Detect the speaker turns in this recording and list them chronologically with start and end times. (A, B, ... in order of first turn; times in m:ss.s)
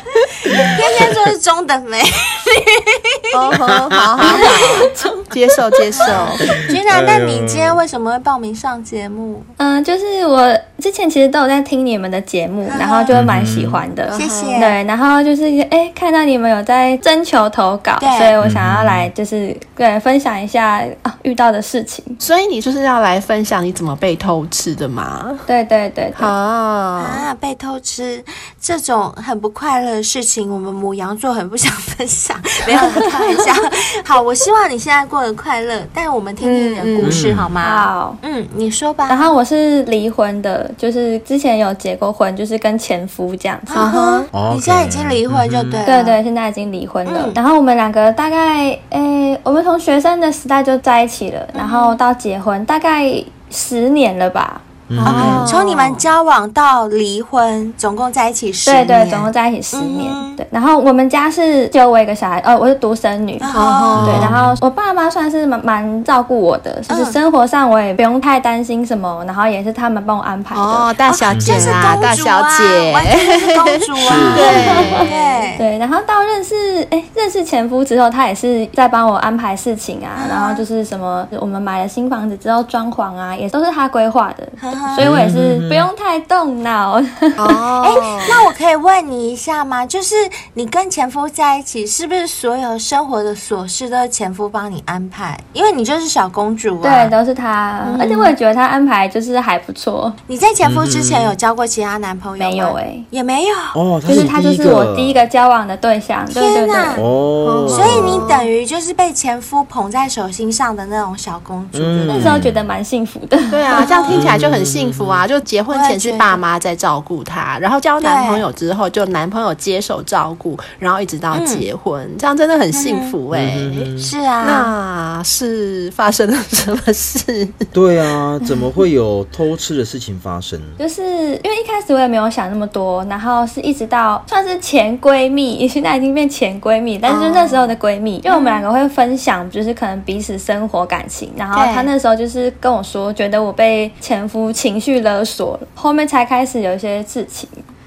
0:00.5-0:01.1 A
0:00.5-0:03.6 B
0:03.3-0:06.5 C
0:03.6-0:04.0 A
0:04.3-0:05.2 B
0:04.3-0:05.1 D
0:06.0-0:09.5 B
0:06.1-0:07.8 A
0:09.6-0:22.2 D
0:12.7-0:13.1 B
0:13.1-0:13.8 A
0:14.1-0:14.7 C
0:14.1-0:14.8 B
0:18.0-0:18.4 B
0:18.4-0:19.1 A
0:22.2-0:25.5 C
0:25.5-0:26.3 D
0:26.2-0:27.2 C
0:27.0-0:39.3 B
0:36.4-0:37.3 C
0:37.0-0:37.6 A
0:37.6-0:38.2 D
0:39.1-0:43.9 D
0:43.7-0:46.2 B
0:43.7-0:44.3 C
0:44.3-0:45.8 A
0:45.8-0:55.4 D
0:47.1-0:47.4 B
0:51.6-0:52.0 B
0:54.9-0:55.5 A
0:55.0-0:56.0 C
0:55.1-1:00.4 B
0:58.7-1:03.5 D
1:03.4-1:04.2 B
1:03.5-1:04.3 C
1:04.0-1:04.6 A
1:04.0-1:10.9 D
1:06.9-1:07.2 B
1:10.5-1:15.5 C
1:11.1-1:15.6 B
1:11.3-1:11.6 A
1:14.0-1:15.0 A
1:14.2-1:27.5 D
1:20.2-1:20.6 B
1:24.6-1:25.1 B
1:25.0-1:25.9 A
1:27.4-1:28.5 C
1:27.8-1:37.1 B
1:36.8-1:40.2 D
1:37.8-1:38.3 C
1:40.3-1:43.8 B
1:40.6-1:41.4 A
1:42.4-1:43.1 D
1:43.7-1:45.2 A
1:44.1-1:47.0 D
1:46.3-1:47.1 B
1:47.0-1:48.2 A
1:47.4-1:48.5 C
1:47.7-1:52.4 B
1:51.7-1:52.6 A
1:52.2-1:53.8 D
1:53.5-2:03.9 C
1:53.7-1:54.3 B
1:54.1-1:55.2 A
1:55.7-1:56.4 B
1:58.0-1:58.4 B
2:01.3-2:01.7 B
2:02.7-2:03.1 B
2:03.3-2:04.1 A
2:04.0-2:04.7 B
2:04.4-2:07.7 C
2:07.7-2:10.8 A
2:10.8-2:27.6 D
2:17.1-2:17.7 B
2:18.3-2:18.7 B
2:21.5-2:21.9 B